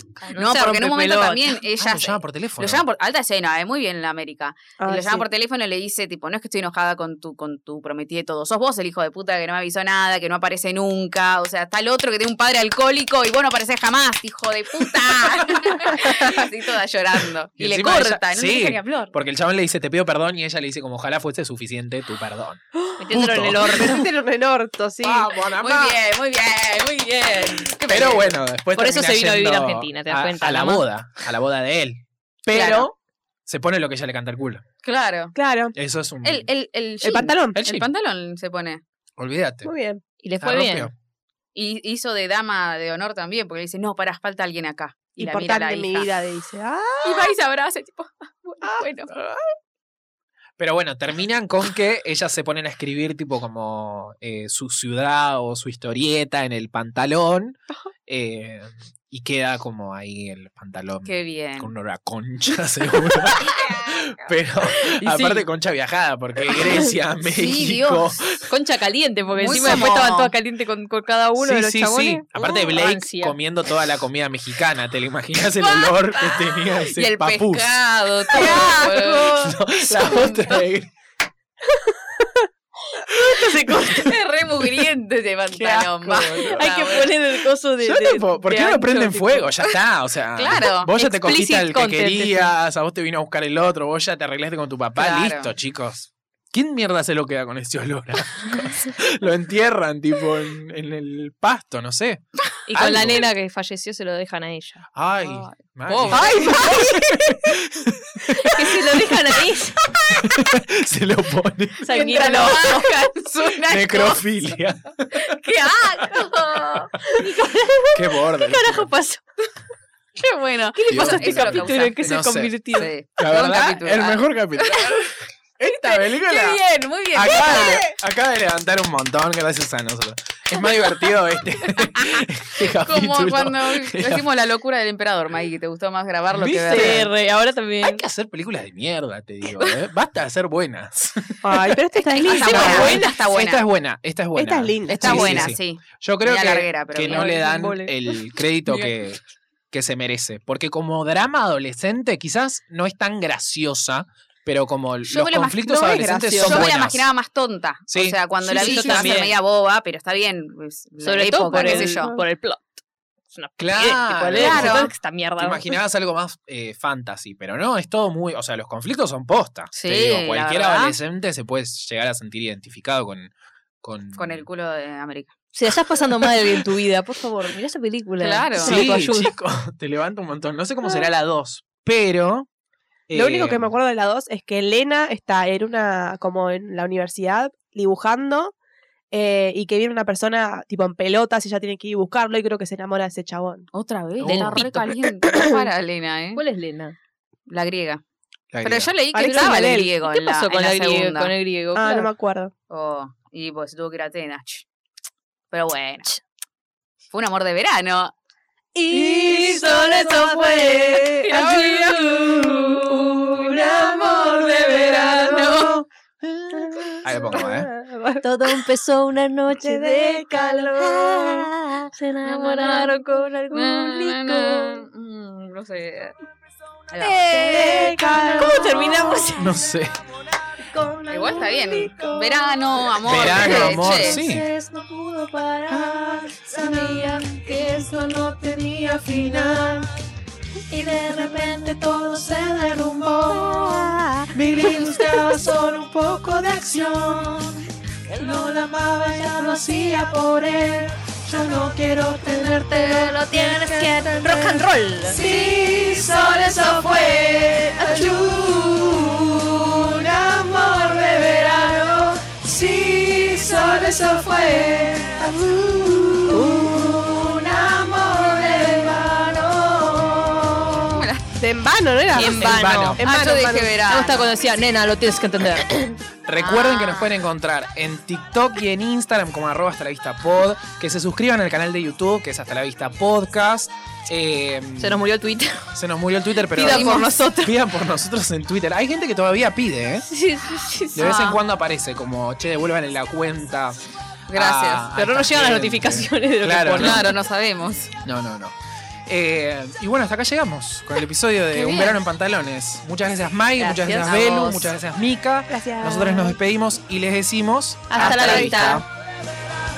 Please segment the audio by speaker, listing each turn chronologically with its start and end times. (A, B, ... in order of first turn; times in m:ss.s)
0:00.2-0:01.6 A
0:00.3-0:19.1 B
0:01.8-0:02.8 C
0:04.8-0:05.2 D
0:15.8-0:16.4 C
0:17.6-0:24.0 C
0:23.0-0:24.1 A
0:23.6-0:25.3 D
0:25.0-0:26.0 C
0:25.6-0:28.4 B
0:27.9-0:32.9 C
0:28.8-0:30.8 A
0:32.5-0:32.9 B
0:33.4-0:34.6 C
0:34.8-0:35.3 B
0:35.3-0:35.7 D
0:35.7-0:36.5 C
0:36.2-0:38.8 B
0:37.0-0:37.6 D
0:37.5-0:37.9 C
0:39.2-0:39.7 C
0:39.6-0:40.0 D
0:40.2-0:40.9 A
0:40.4-0:40.9 C
0:41.5-0:46.1 B
0:45.2-0:47.3 D
0:47.0-0:49.1 B
0:48.6-0:49.4 D
0:50.6-1:08.5 C
1:01.0-1:01.7 B
1:05.0-1:05.4 B
1:07.2-1:08.2 B
1:08.5-1:13.4 A
1:09.3-1:10.3 B
1:09.5-1:10.0 C
1:11.4-1:17.7 C
1:15.6-1:20.6 B
1:18.3-1:19.4 A
1:18.3-1:20.9 C
1:23.0-1:24.2 A
1:23.8-1:27.2 B
1:25.5-1:26.7 C
1:26.1-1:29.5 A
1:27.8-1:43.3 C
1:30.3-1:30.9 B
1:30.9-1:32.5 A
1:35.0-1:35.5 B
1:42.7-1:44.8 A
1:44.9-1:49.4 C
1:45.2-1:46.7 B
1:46.1-1:47.5 A
1:48.3-1:50.4 A
1:50.1-1:52.1 C
1:51.8-1:53.1 A
1:51.9-1:54.2 B
1:53.7-1:55.3 C
1:55.2-1:57.2 B
1:55.7-1:59.2 A
1:57.9-1:58.9 C
2:00.2-2:02.0 B
2:00.7-2:02.9 A
2:00.9-2:02.6 C
2:02.7-2:05.0 B
2:03.2-2:06.6 C
2:05.9-2:07.9 B
2:07.1-2:14.2 C
2:07.4-2:07.7 A
2:12.0-2:17.1 B
2:16.3-2:17.1 C
2:16.7-2:18.0 A
2:17.8-2:21.6 C
2:21.4-2:23.0 D
2:22.0-2:23.1 A
2:22.1-2:23.6 B
2:22.4-2:29.2 C
2:24.3-2:25.5 D
2:25.0-2:27.4 B
2:27.0-2:27.9 A
2:29.7-2:37.1 C
2:35.0-2:42.1 B
2:35.9-2:36.7 A
2:37.9-2:39.2 C
2:38.4-2:39.4 A
2:41.0-2:42.8 A
2:41.5-2:42.2 D
2:43.3-2:45.7 A
2:43.6-2:54.5 C
2:44.3-2:44.9 B
2:49.7-2:51.0 B
2:54.2-2:55.3 B
2:55.5-2:59.3 A
2:56.3-2:56.6 C
2:58.2-2:59.0 B
2:58.6-3:02.5 C
3:03.1-3:03.7 C
3:03.1-3:08.5 D
3:09.1-3:13.7 D
3:13.7-3:16.4 B
3:14.2-3:14.8 C
3:14.2-3:14.9 A
3:16.4-3:17.0 A
3:17.5-3:18.0 B
3:18.5-3:18.9 C
3:18.6-3:21.3 B
3:19.1-3:19.9 D
3:19.2-3:22.1 A
3:21.7-3:22.5 D
3:22.7-3:24.6 B
3:25.5-3:26.1 B
3:27.1-3:28.1 B
3:28.8-3:31.5 D
3:28.9-3:35.7 A
3:29.2-3:31.1 E
3:31.3-3:31.9 B
3:33.4-3:35.7 E
3:33.5-3:35.1 D
3:34.7-3:35.8 B
3:36.5-3:38.6 D
3:37.0-3:37.7 C
3:38.2-3:44.8 A
3:39.6-3:41.5 D
3:42.3-3:43.0 B
3:43.5-3:46.1 B
3:46.9-3:47.3 B
3:47.0-3:49.6 A
3:47.3-3:49.3 D
3:48.0-3:49.3 E
3:49.3-3:50.0 C
3:50.9-3:52.1 E
3:51.1-3:54.2 B
3:53.0-3:54.5 C
3:53.1-3:57.9 A
3:54.2-3:54.5 E
3:55.7-3:59.9 E
4:00.7-4:01.8 A
4:00.7-4:30.9 E
4:03.5-4:04.9 A
4:12.8-4:15.2 A
4:17.8-4:18.1 A
4:26.3-4:27.0 D
4:26.5-4:27.0 A
4:27.6-4:29.1 A
4:30.9-4:31.2 B
4:31.4-4:33.7 D
4:32.1-4:33.3 A
4:32.2-4:33.0 C
4:33.0-4:34.3 B
4:33.8-4:36.0 A
4:36.2-4:45.0 C
4:36.4-4:37.1 B
4:44.8-4:45.7 A
4:45.7-4:50.1 C
4:46.4-4:47.6 A
4:46.6-4:47.1 B
4:50.1-4:51.2 A
4:50.9-4:53.8 C
4:51.0-4:51.4 B
4:54.3-4:54.8 B
4:54.3-4:57.1 C
4:54.9-4:57.2 A
4:56.8-4:57.9 B
4:58.0-4:58.5 C
4:59.1-5:08.8 C
5:01.5-5:02.0 B
5:03.6-5:04.7 B
5:05.5-5:06.4 D
5:07.9-5:08.8 A
5:08.0-5:08.4 B